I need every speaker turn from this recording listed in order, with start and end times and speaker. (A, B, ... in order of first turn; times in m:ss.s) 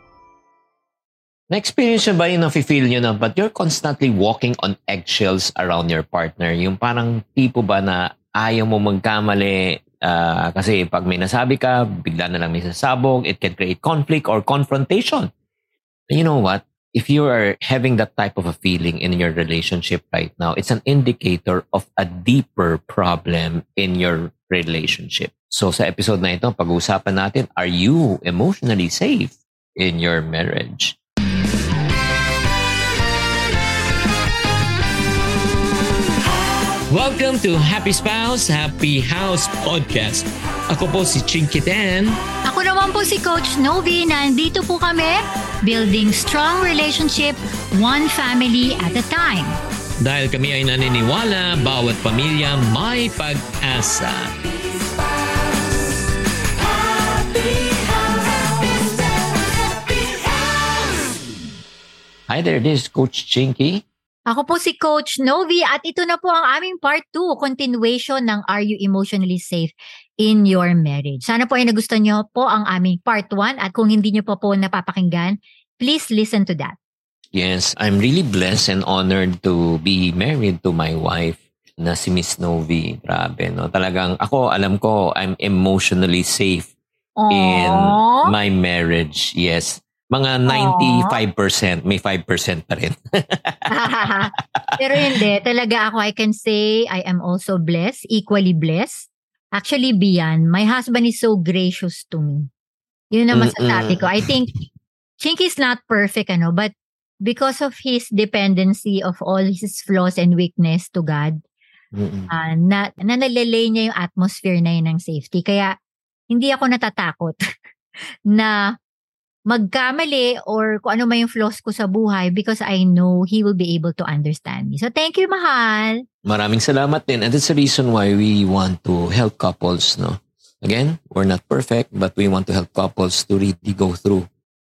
0:01.5-0:15.3 A
0:16.1-0:31.0 A
0:36.9-0:42.2 A
0:42.4-0:49.6 B
0:50.0-0:54.3 A
1:02.3-1:03.8 A
1:04.3-1:16.7 B
1:17.3-1:26.7 A
1:27.2-1:28.3 B
1:27.3-1:35.2 A
1:30.5-1:31.2 B
1:33.7-1:42.5 B
1:43.1-1:44.5 B
1:43.3-1:44.3 A
1:45.2-1:46.7 B
1:47.2-1:51.4 B
1:51.9-1:52.3 A
1:52.3-1:55.7 B
1:56.3-1:57.4 B
1:59.5-2:06.0 B
2:06.2-2:14.2 A